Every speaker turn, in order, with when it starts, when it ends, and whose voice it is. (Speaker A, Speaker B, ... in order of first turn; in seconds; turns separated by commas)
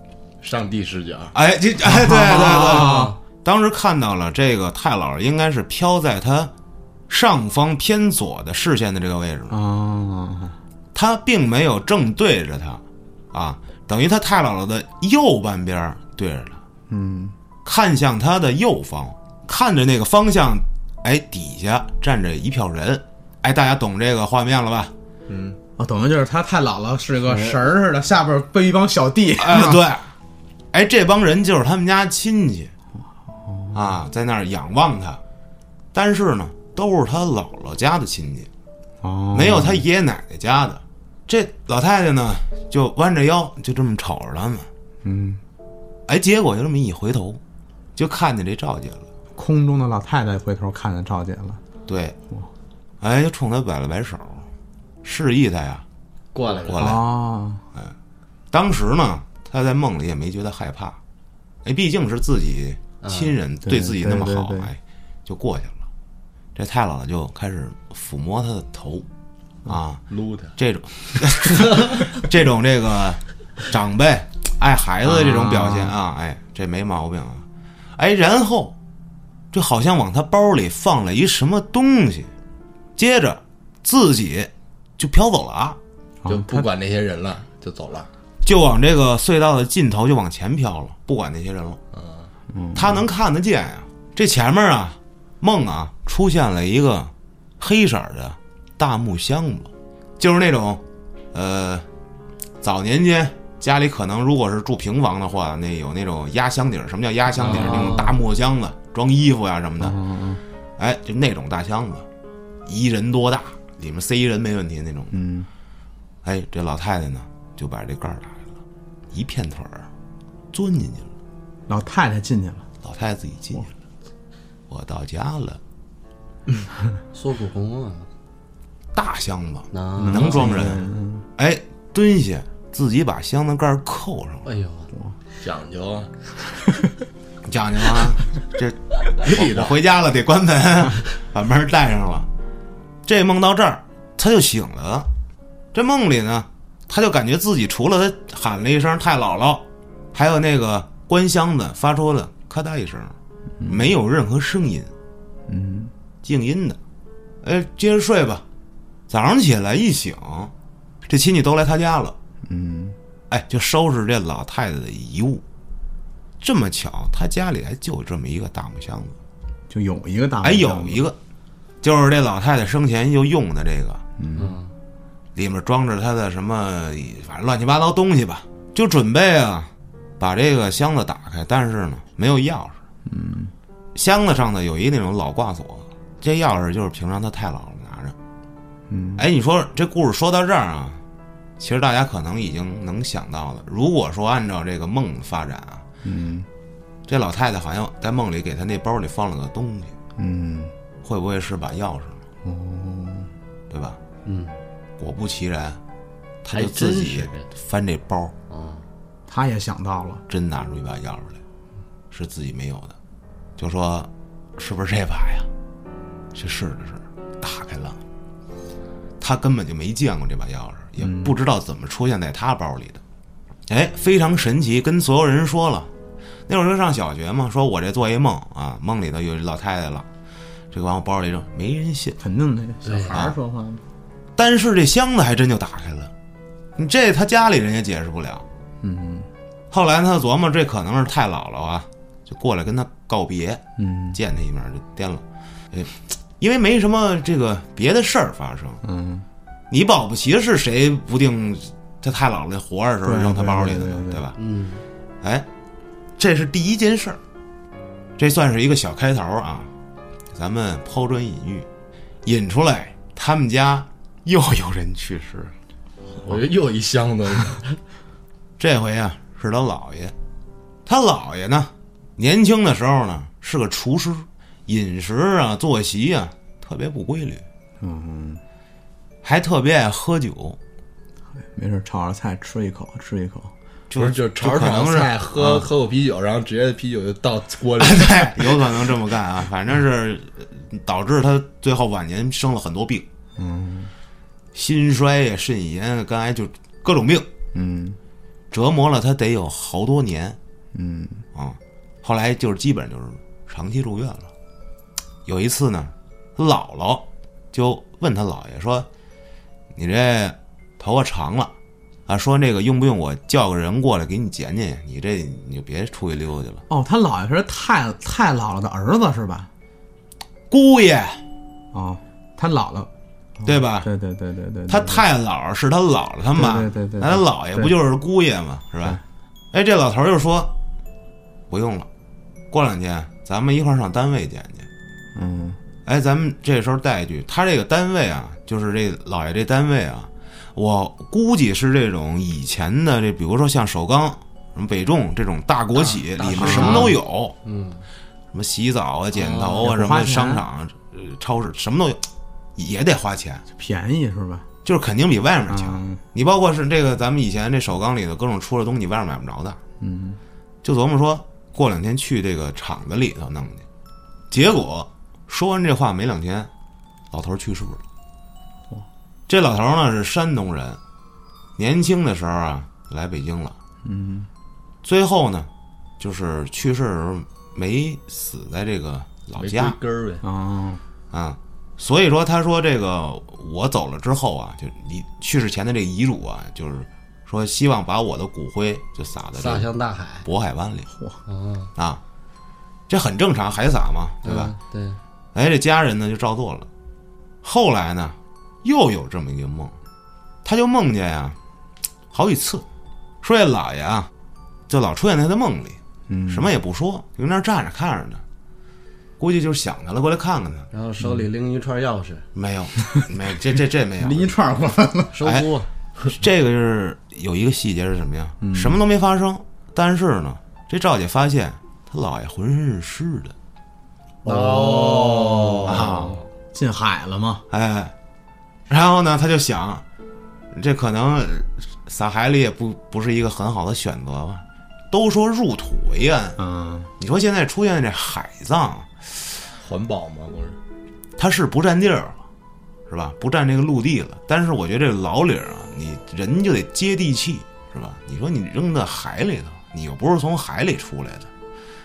Speaker A: 0.4-1.3, Speaker B: 1.3-6.5, Speaker C: 1.8-3.1, Speaker D: 2.7-3.1, Speaker B: 7.1-9.6, Speaker C: 9.5-10.6, Speaker B: 10.9-16.6, Speaker C: 16.9-17.4, Speaker B: 17.6-24.9, Speaker A: 25.3-25.6, Speaker C: 25.8-29.8, Speaker D: 27.3-27.6, Speaker B: 29.4-30.1, Speaker B: 30.7-32.7, Speaker C: 33.3-33.8, Speaker B: 33.7-35.2, Speaker B: 35.9-38.5, Speaker C: 39.0-39.8, Speaker B: 39.3-44.7, Speaker C: 45.0-45.4, Speaker B: 46.1-47.4, Speaker B: 48.0-49.1, Speaker C: 49.4-51.6, Speaker B: 51.9-52.2, Speaker B: 53.0-54.5, Speaker B: 55.0-55.8, Speaker D: 56.3-56.9, Speaker A: 56.5-56.7, Speaker B: 56.6-57.0, Speaker C: 56.8-57.6, Speaker B: 58.5-61.0, Speaker B: 61.6-65.8, Speaker D: 63.0-63.3, Speaker C: 63.6-64.7, Speaker B: 66.5-69.0, Speaker B: 69.7-70.0, Speaker A: 70.1-70.5, Speaker B: 70.6-78.7, Speaker C: 75.0-75.9, Speaker B: 79.5-82.3, Speaker B: 83.0-85.8, Speaker C: 86.2-86.7, Speaker A: 86.2-88.1, Speaker B: 88.4-91.8, Speaker A: 91.9-92.3, Speaker C: 92.5-93.0, Speaker B: 92.7-101.8, Speaker B: 102.6-110.0, Speaker D: 107.3-108.2, Speaker C: 109.8-110.4, Speaker B: 110.8-112.1, Speaker B: 112.7-115.2, Speaker C: 115.1-115.5, Speaker B: 116.2-118.5, Speaker B: 119.1-119.9, Speaker B: 120.5-121.1, Speaker C: 121.7-122.7, Speaker B: 122.8-123.7, Speaker B: 124.7-125.6, Speaker D: 127.1-128.1, Speaker B: 128.9-134.5, Speaker D: 129.7-130.7, Speaker C: 130.0-131.2, Speaker D: 134.4-134.9, Speaker A: 135.4-136.2, Speaker B: 137.4-142.3, Speaker A: 139.2-139.7, Speaker B: 143.0-145.1, Speaker B: 145.7-153.1, Speaker C: 153.6-153.9, Speaker B: 153.7-154.9, Speaker C: 155.5-155.9, Speaker B: 156.2-156.8, Speaker B: 157.4-158.4, Speaker B: 159.1-160.5, Speaker B: 161.0-162.2, Speaker C: 162.4-163.0, Speaker B: 163.3-165.4, Speaker B: 166.4-169.2, Speaker C: 169.7-171.1, Speaker B: 170.4-171.2, Speaker B: 171.8-174.0, Speaker C: 174.2-174.6, Speaker D: 174.4-174.7, Speaker B: 175.3-182.8, Speaker C: 183.1-183.5, Speaker B: 183.9-188.2, Speaker C: 188.9-189.2, Speaker B: 189.2-191.0, Speaker B: 191.6-195.8, Speaker C: 196.0-196.5, Speaker B: 197.1-199.9, Speaker C: 200.2-200.7, Speaker B: 201.0-202.2, Speaker C: 202.4-203.3, Speaker B: 203.7-204.0, Speaker D: 204.2-204.6, Speaker B: 205.0-205.8, Speaker B: 206.4-208.3, Speaker D: 206.5-207.5, Speaker D: 208.5-208.9, Speaker C: 209.3-210.2, Speaker B: 210.3-211.4, Speaker B: 212.1-212.9, Speaker B: 213.6-215.5, Speaker B: 216.3-218.0, Speaker B: 219.2-223.0, Speaker C: 221.0-221.3, Speaker B: 223.7-225.9, Speaker B: 226.5-230.1, Speaker B: 230.7-232.2, Speaker C: 232.2-233.8, Speaker D: 232.8-233.2, Speaker B: 234.3-236.1, Speaker B: 236.8-238.4, Speaker C: 238.8-239.3, Speaker B: 239.7-243.6, Speaker C: 243.8-244.2, Speaker B: 244.1-248.8, Speaker C: 248.8-249.2, Speaker B: 249.7-254.4, Speaker C: 253.0-254.2, Speaker D: 254.3-254.8, Speaker B: 255.2-255.5, Speaker B: 256.2-257.2, Speaker B: 258.2-259.7, Speaker B: 260.3-261.7, Speaker B: 262.2-265.5, Speaker A: 266.2-267.6, Speaker B: 268.6-270.1, Speaker B: 270.9-277.4, Speaker C: 277.8-278.4, Speaker B: 279.2-280.6, Speaker C: 281.3-283.5, Speaker B: 283.9-285.7, Speaker A: 283.9-288.8, Speaker B: 287.8-293.1, Speaker C: 293.4-293.9, Speaker B: 294.5-297.3, Speaker C: 297.5-298.0, Speaker B: 298.5-300.4, Speaker C: 300.7-301.2, Speaker B: 301.3-304.3, Speaker B: 305.2-308.9, Speaker B: 309.7-311.5, Speaker B: 312.1-316.6, Speaker C: 316.7-319.5, Speaker B: 320.5-321.2, Speaker C: 321.7-325.0, Speaker B: 323.4-323.9, Speaker B: 324.7-329.0, Speaker C: 326.3-327.7, Speaker B: 329.5-330.5, Speaker B: 331.5-331.9, Speaker B: 332.5-334.7, Speaker C: 335.1-335.6, Speaker B: 335.8-347.4, Speaker D: 345.9-347.9, Speaker C: 346.4-346.9, Speaker B: 348.3-353.4, Speaker D: 349.1-349.7, Speaker C: 349.6-350.4, Speaker C: 353.5-354.5, Speaker B: 354.6-359.6, Speaker C: 355.5-356.0, Speaker C: 359.8-360.2, Speaker B: 360.6-363.6, Speaker B: 364.3-366.5, Speaker B: 367.1-367.8, Speaker B: 369.3-370.8, Speaker B: 371.6-373.6, Speaker C: 373.8-374.3, Speaker B: 374.8-379.8, Speaker A: 379.4-380.2, Speaker C: 380.2-380.8, Speaker B: 381.1-389.7, Speaker D: 389.3-390.3, Speaker B: 390.2-390.9, Speaker C: 390.9-391.2, Speaker D: 391.3-391.7, Speaker B: 391.8-392.0, Speaker B: 392.9-394.5, Speaker D: 394.2-395.0, Speaker B: 395.3-396.7, Speaker B: 397.4-399.8, Speaker B: 400.4-401.4, Speaker B: 402.1-402.6, Speaker B: 403.2-404.1, Speaker B: 404.7-408.2, Speaker C: 406.1-406.5, Speaker B: 409.2-410.7, Speaker D: 410.7-412.3, Speaker C: 411.0-411.2, Speaker B: 412.3-414.3, Speaker C: 414.0-415.1, Speaker D: 415.1-415.7, Speaker B: 416.2-423.3, Speaker C: 418.4-418.8, Speaker C: 424.2-427.4, Speaker A: 424.4-424.7, Speaker D: 424.7-425.5, Speaker B: 425.6-426.2, Speaker B: 427.5-427.9, Speaker B: 428.7-429.8, Speaker B: 430.5-436.4, Speaker C: 436.4-436.9, Speaker B: 437.0-439.3, Speaker A: 439.6-440.6, Speaker B: 441.2-442.2, Speaker B: 442.9-451.3